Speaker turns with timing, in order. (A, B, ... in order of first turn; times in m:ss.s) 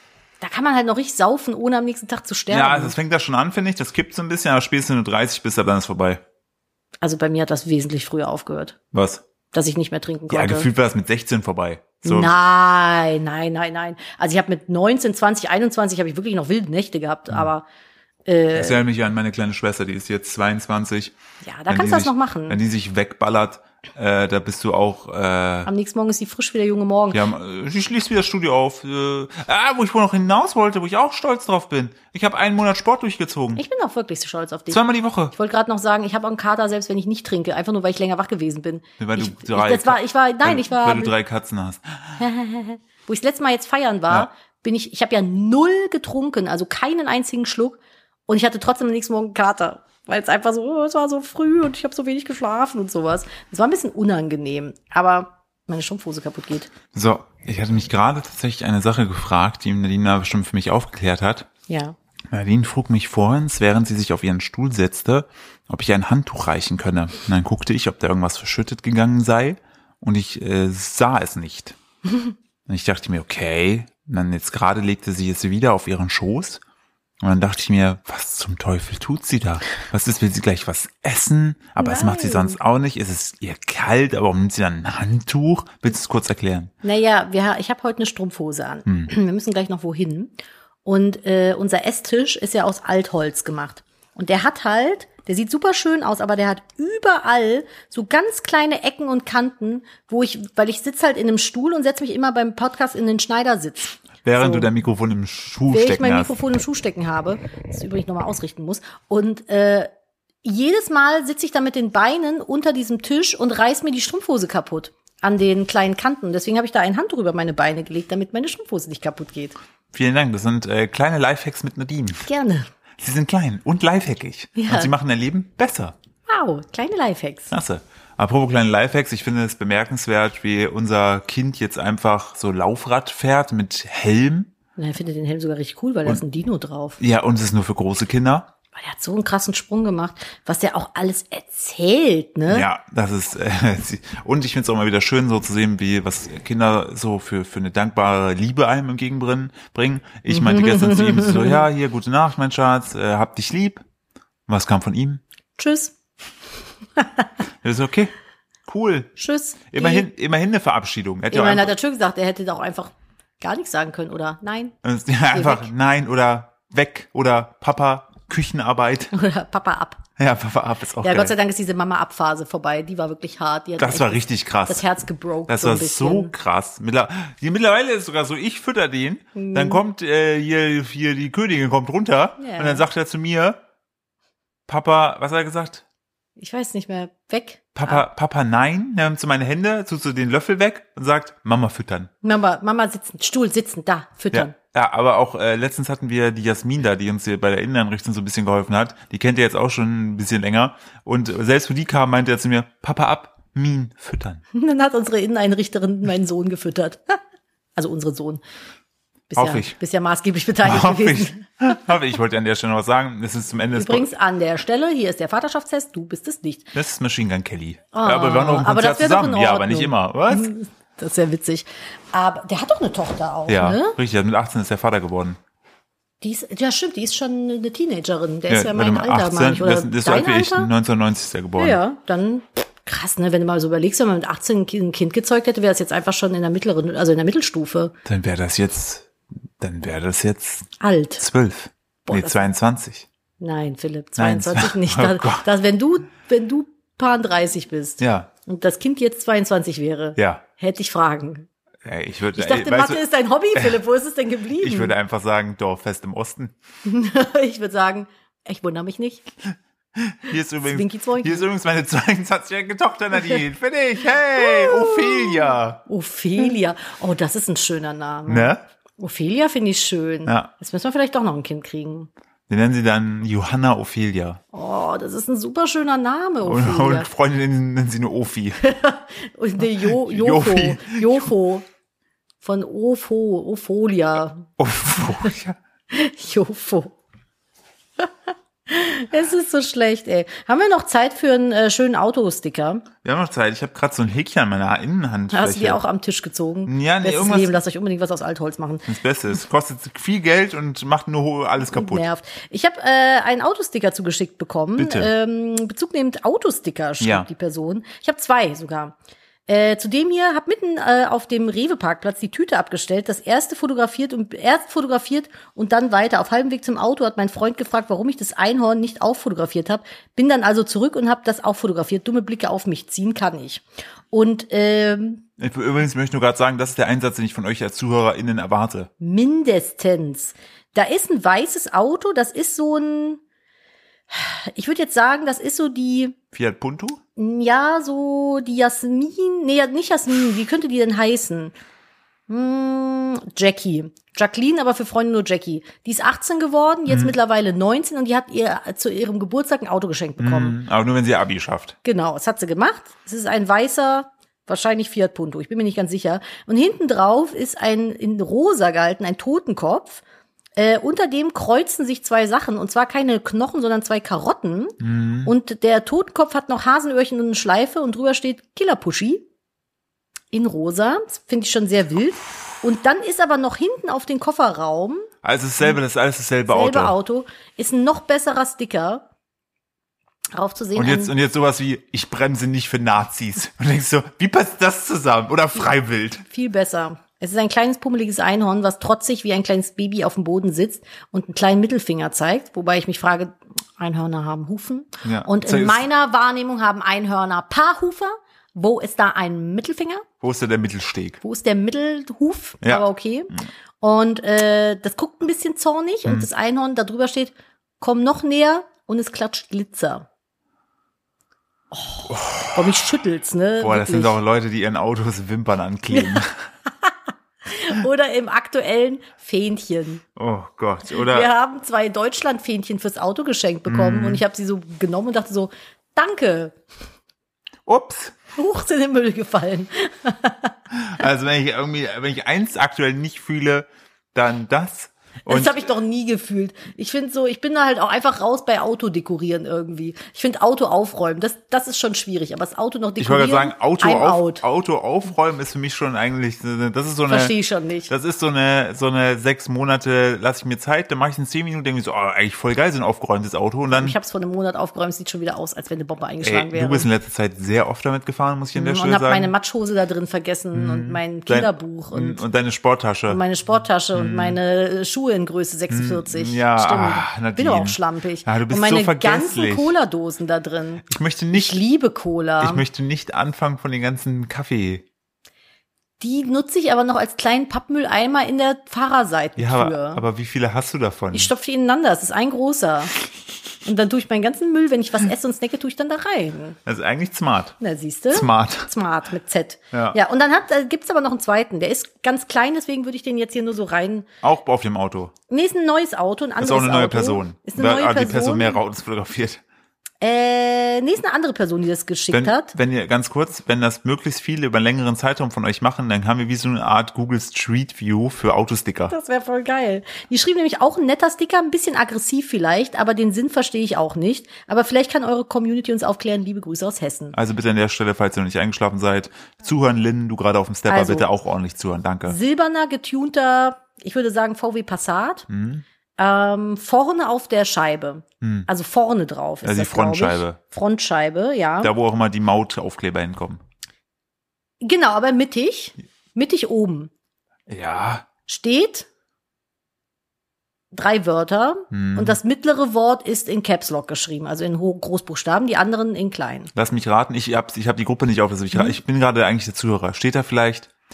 0:00.4-0:03.0 A
0:02.5-0:06.2 B
0:07.0-0:08.8 A
0:08.9-0:09.2 B
0:09.5-0:10.7 A
0:10.3-0:12.3 B
0:12.0-0:17.6 A
0:18.2-0:18.8 A
0:18.5-0:21.2 B
0:21.4-0:22.6 A
0:21.7-0:25.7 B
0:25.6-0:27.2 A
0:27.1-0:33.6 B
0:33.6-0:41.1 A
0:34.7-0:35.3 B
0:39.0-0:42.2 B
0:42.2-0:56.7 A
0:56.9-1:01.5 B
1:01.7-1:02.0 A
1:02.3-1:11.8 B
1:12.7-1:16.6 B
1:17.2-1:26.7 B
1:21.8-1:22.6 A
1:26.8-1:30.3 A
1:28.8-1:29.1 B
1:30.8-1:44.7 A
1:44.2-1:46.4 B
1:45.7-1:49.9 A
1:50.4-1:59.6 A
1:59.9-2:02.3 B
2:02.2-2:02.7 A
2:03.0-2:06.0 B
2:04.6-2:04.9 A
2:06.3-2:07.5 A
2:07.5-2:14.5 B
2:14.8-2:17.0 A
2:17.0-2:18.5 B
2:18.7-2:22.6 A
2:22.5-2:33.8 B
2:30.3-2:31.6 A
2:34.5-2:35.2 B
2:35.6-2:35.9 A
2:37.0-2:37.3 A
2:37.6-2:38.1 B
2:38.7-2:39.2 B
2:39.2-2:40.0 A
2:39.7-2:41.7 B
2:41.3-2:44.7 A
2:44.8-2:49.1 B
2:45.3-2:45.7 A
2:49.1-2:50.0 A
2:50.2-2:51.3 B
2:51.0-2:56.3 A
2:53.8-2:54.8 B
2:55.5-3:03.6 B
2:59.3-2:59.8 A
3:02.4-3:02.8 A
3:04.7-3:05.8 B
3:06.4-3:08.0 A
3:07.7-3:12.1 B
3:12.2-3:14.5 A
3:14.3-3:24.4 B
3:24.5-3:27.2 A
3:27.8-3:28.4 A
3:29.3-3:31.8 A
3:29.4-3:29.8 B
3:30.6-3:34.1 B
3:33.7-3:36.7 A
3:36.7-3:40.5 B
3:37.9-3:43.9 A
3:43.5-3:45.4 B
3:46.2-3:50.7 A
3:48.5-3:51.8 B
3:51.6-3:57.9 A
3:58.0-3:59.1 B
3:59.6-4:03.1 B
4:00.8-4:01.2 A
4:02.0-4:02.4 A
4:03.4-4:11.5 A
4:04.2-4:05.5 B
4:08.0-4:08.3 B
4:10.2-4:10.4 B
4:11.8-4:13.0 B
4:12.3-4:14.9 A
4:14.6-4:16.5 B
4:16.8-4:19.3 A
4:20.0-4:25.8 B
4:20.6-4:21.5 A
4:24.3-4:32.1 A
4:28.3-4:28.6 B
4:30.2-4:30.5 B
4:32.5-4:34.4 B
4:34.5-4:37.1 A
4:36.4-4:38.7 B
4:38.6-4:41.6 A
4:39.7-4:41.3 B
4:42.4-4:44.5 A
4:44.6-4:45.6 B
4:45.9-4:46.9 A
4:48.7-4:52.8 A
4:53.0-4:55.8 B
4:55.3-4:58.9 A
4:56.6-4:57.6 B
4:58.9-5:02.0 B
5:01.6-5:08.9 A
5:04.8-5:05.1 B
5:07.0-5:07.3 B
5:09.5-5:25.2 A
5:25.4-5:28.9 B
5:29.0-5:33.2 A
5:34.1-5:36.2 A
5:36.3-5:37.0 B
5:37.2-5:41.5 A
5:42.3-5:50.6 A
5:46.9-5:47.1 B
5:50.2-5:51.8 B
5:51.8-6:00.0 A
6:00.6-6:09.2 A
6:04.8-6:05.3 B
6:10.3-6:15.1 A
6:15.2-6:17.0 B
6:16.5-6:19.0 A
6:20.3-6:21.1 A
6:20.8-6:26.2 B
6:26.3-6:40.0 A
6:35.0-6:35.8 B
6:40.2-6:41.2 B
6:41.2-6:50.0 A
6:42.6-6:43.5 B
6:51.7-6:54.2 A
6:52.1-6:52.7 B
6:53.6-6:56.4 B
6:55.9-6:56.2 A
6:56.8-7:00.0 A
7:00.2-7:01.3 B
7:00.9-7:06.6 A
7:03.7-7:04.2 B
7:07.7-7:08.1 B
7:08.3-7:10.5 A
7:10.7-7:15.6 B
7:15.3-7:24.4 A
7:23.0-7:27.3 B
7:27.1-7:27.9 A
7:27.9-7:34.0 B
7:33.7-7:36.9 A
7:36.2-7:39.3 B
7:38.5-7:42.2 A
7:40.5-7:43.2 B
7:43.1-7:52.6 A
7:43.9-7:44.4 B
7:45.7-7:49.7 B
7:50.9-7:51.6 B
7:52.4-7:54.8 B
7:56.0-8:00.0 A
7:59.4-8:01.3 B
8:01.1-8:02.9 A
8:03.6-8:06.6 A
8:06.6-8:07.6 B
8:07.6-8:14.1 A
8:08.1-8:08.7 B
8:09.7-8:10.0 B
8:14.2-8:15.1 B
8:15.3-8:18.6 A
8:16.4-8:19.4 B
8:20.0-8:22.6 A
8:22.1-8:28.9 B
8:28.9-8:37.1 A
8:37.1-8:42.2 B
8:40.7-8:41.1 A
8:42.0-8:45.2 A
8:45.3-8:45.6 B
8:46.0-8:51.7 A
8:48.2-8:48.5 B
8:49.4-8:50.4 B
8:51.6-8:53.4 B
8:54.6-8:56.9 A
8:57.5-8:58.0 B
8:58.2-8:58.9 A
9:00.7-9:06.5 A
9:01.7-9:02.2 B
9:06.5-9:10.7 B